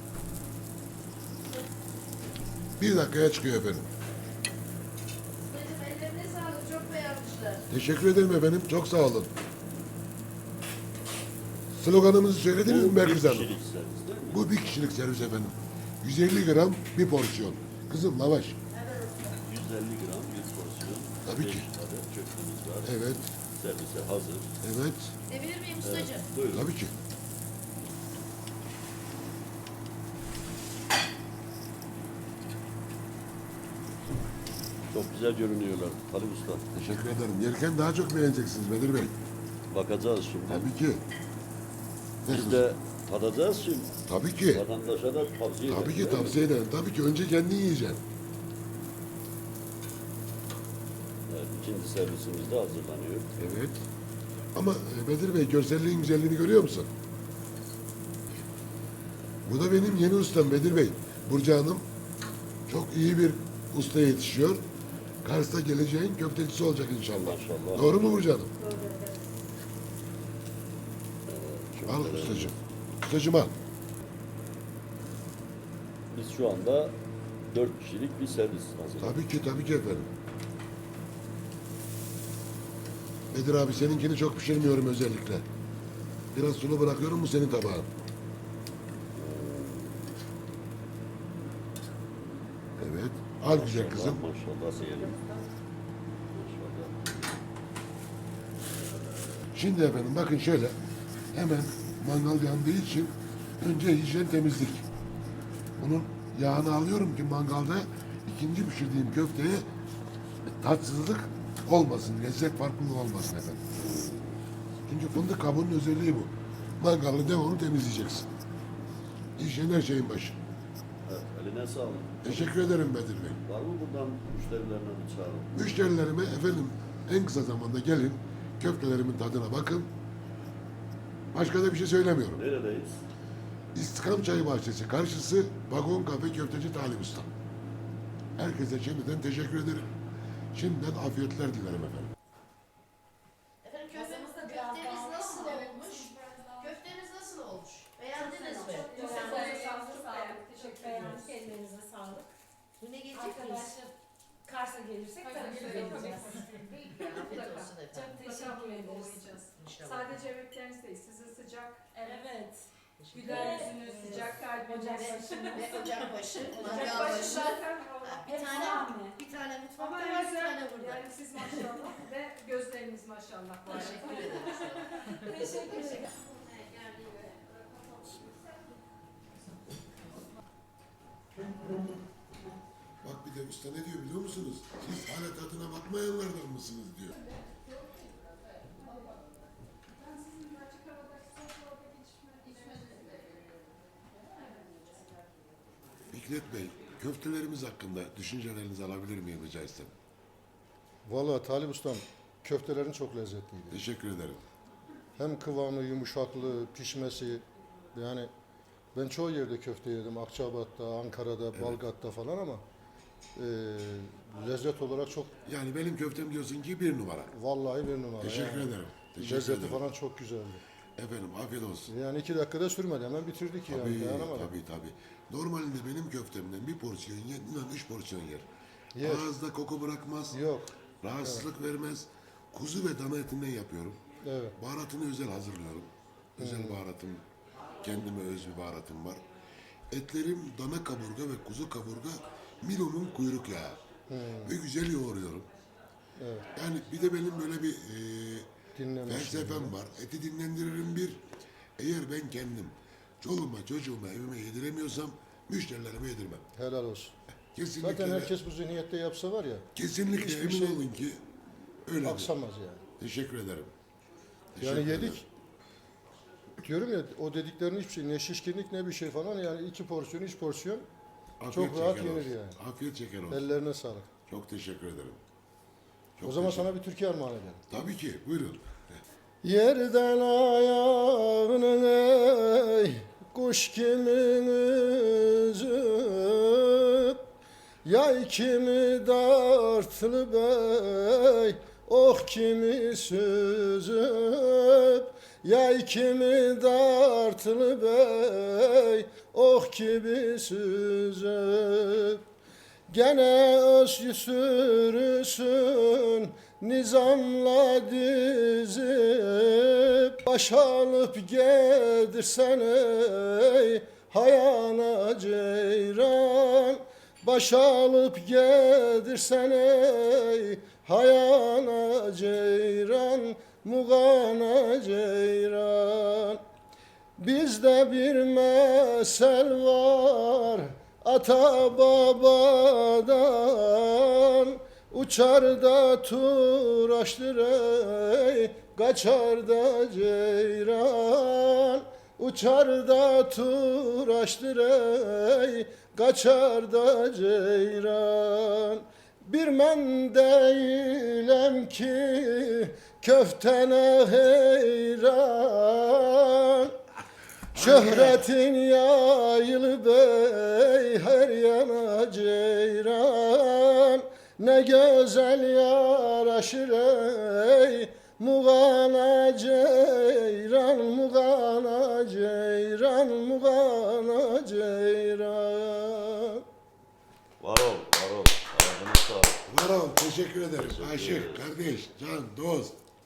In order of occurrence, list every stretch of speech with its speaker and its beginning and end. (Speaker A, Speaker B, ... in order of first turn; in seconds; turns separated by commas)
Speaker A: 2.8-3.9, Speaker B: 5.4-7.6, Speaker A: 7.7-9.3, Speaker A: 11.7-13.6, Speaker C: 12.7-14.4, Speaker A: 14.3-18.6, Speaker B: 18.7-19.3, Speaker C: 19.4-23.0, Speaker A: 21.2-21.7, Speaker A: 22.8-23.3, Speaker C: 23.5-24.5, Speaker A: 24.6-25.1, Speaker B: 25.3-26.3, Speaker C: 25.8-26.7, Speaker A: 26.5-26.9, Speaker C: 34.9-36.6, Speaker A: 36.7-39.1, Speaker C: 39.7-40.7, Speaker A: 40.5-41.0, Speaker A: 42.2-42.6, Speaker C: 42.3-44.0, Speaker A: 44.1-44.6, Speaker C: 44.5-46.4, Speaker A: 45.7-48.0, Speaker C: 51.3-53.3, Speaker A: 53.4-53.9, Speaker A: 54.5-56.9, Speaker A: 59.4-61.9, Speaker A: 62.7-64.6, Speaker A: 65.2-68.5, Speaker C: 67.2-67.9, Speaker C: 71.3-72.6, Speaker A: 71.9-73.5, Speaker C: 76.1-79.2, Speaker A: 79.0-80.1, Speaker A: 83.3-85.5, Speaker A: 86.3-87.9, Speaker C: 89.1-90.1, Speaker A: 92.8-94.2, Speaker C: 93.5-95.3, Speaker C: 96.3-97.4, Speaker C: 98.7-99.5, Speaker A: 99.5-100.8, Speaker A: 101.3-104.9, Speaker A: 105.8-109.7, Speaker A: 110.5-113.7, Speaker C: 113.8-114.4, Speaker A: 114.9-118.3, Speaker A: 119.4-120.4, Speaker C: 121.1-122.8, Speaker A: 122.2-123.4, Speaker C: 123.5-125.7, Speaker A: 125.5-129.9, Speaker A: 131.3-132.4, Speaker C: 132.3-133.0, Speaker A: 133.7-137.3, Speaker A: 138.4-139.9, Speaker A: 140.5-142.1, Speaker B: 143.6-149.6, Speaker D: 143.9-145.9, Speaker E: 145.5-146.4, Speaker E: 148.1-151.5, Speaker D: 148.2-152.3, Speaker B: 152.8-153.8, Speaker D: 153.1-153.9, Speaker D: 154.5-156.8, Speaker E: 155.2-162.3, Speaker B: 156.9-158.4, Speaker D: 157.9-159.3, Speaker B: 159.5-160.2, Speaker D: 162.0-162.6, Speaker B: 163.0-164.3, Speaker E: 163.1-168.5, Speaker D: 163.3-165.6, Speaker B: 164.8-171.7, Speaker D: 166.5-167.2, Speaker D: 168.3-169.2, Speaker E: 169.8-176.2, Speaker B: 173.7-177.2, Speaker A: 183.0-187.2, Speaker E: 190.0-193.3, Speaker A: 196.1-199.9, Speaker F: 201.1-203.8, Speaker A: 203.7-204.4, Speaker F: 205.2-208.3, Speaker F: 208.9-212.6, Speaker A: 211.5-211.8, Speaker F: 213.4-215.3, Speaker A: 215.4-217.3, Speaker F: 217.3-220.6, Speaker A: 218.2-219.9, Speaker A: 221.0-221.9, Speaker F: 221.9-224.5, Speaker A: 223.7-228.5, Speaker F: 228.9-229.3, Speaker A: 229.0-230.4, Speaker F: 230.3-231.5, Speaker A: 231.0-234.0, Speaker F: 234.2-234.6, Speaker A: 234.6-237.2, Speaker F: 236.4-236.8, Speaker A: 237.8-239.2, Speaker A: 239.9-243.8, Speaker F: 244.1-244.5, Speaker A: 244.4-245.5, Speaker F: 246.2-246.5, Speaker A: 246.6-248.5, Speaker F: 248.8-249.8, Speaker A: 249.1-251.2, Speaker A: 251.8-256.4, Speaker F: 256.6-257.1, Speaker A: 257.6-258.4, Speaker F: 257.8-260.8, Speaker A: 259.8-261.2, Speaker A: 261.9-262.3, Speaker F: 262.0-262.8, Speaker A: 263.0-263.7, Speaker A: 264.6-265.2, Speaker F: 264.6-265.2, Speaker F: 266.6-270.9, Speaker A: 271.4-273.4, Speaker F: 271.5-272.6, Speaker F: 273.3-274.1, Speaker A: 274.3-275.2, Speaker A: 276.1-276.7, Speaker F: 276.2-277.6, Speaker A: 277.7-278.6, Speaker F: 279.4-287.2, Speaker F: 287.9-302.2, Speaker F: 302.9-326.4, Speaker F: 327.2-356.8, Speaker F: 357.5-376.4, Speaker A: 357.6-358.2, Speaker C: 377.4-379.4, Speaker A: 379.5-382.8, Speaker C: 380.6-381.4